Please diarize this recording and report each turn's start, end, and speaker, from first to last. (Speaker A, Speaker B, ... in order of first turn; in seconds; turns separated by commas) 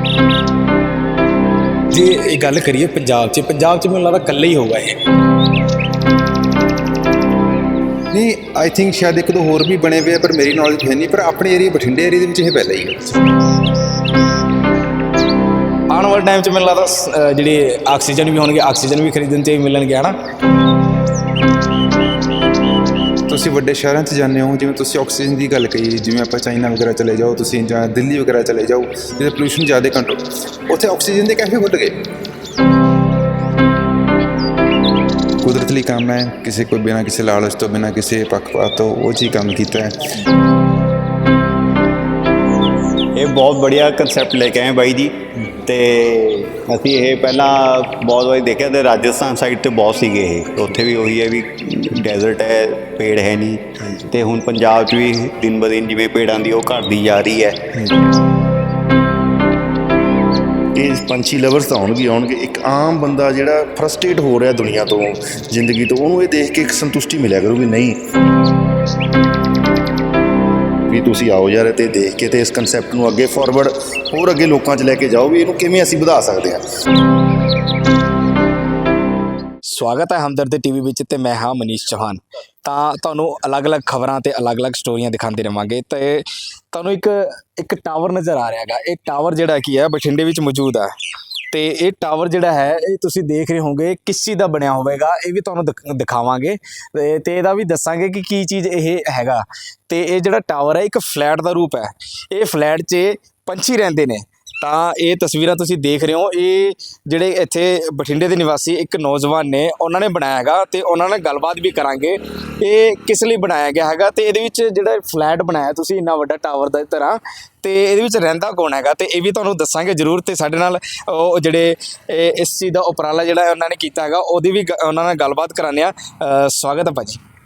Speaker A: 1.9-5.0, Speaker B: 8.1-13.1, Speaker A: 15.9-20.1, Speaker B: 23.3-31.9, Speaker B: 35.4-39.9, Speaker C: 43.1-57.6, Speaker D: 60.8-68.0, Speaker D: 70.9-76.6, Speaker A: 79.7-90.9, Speaker A: 91.5-127.2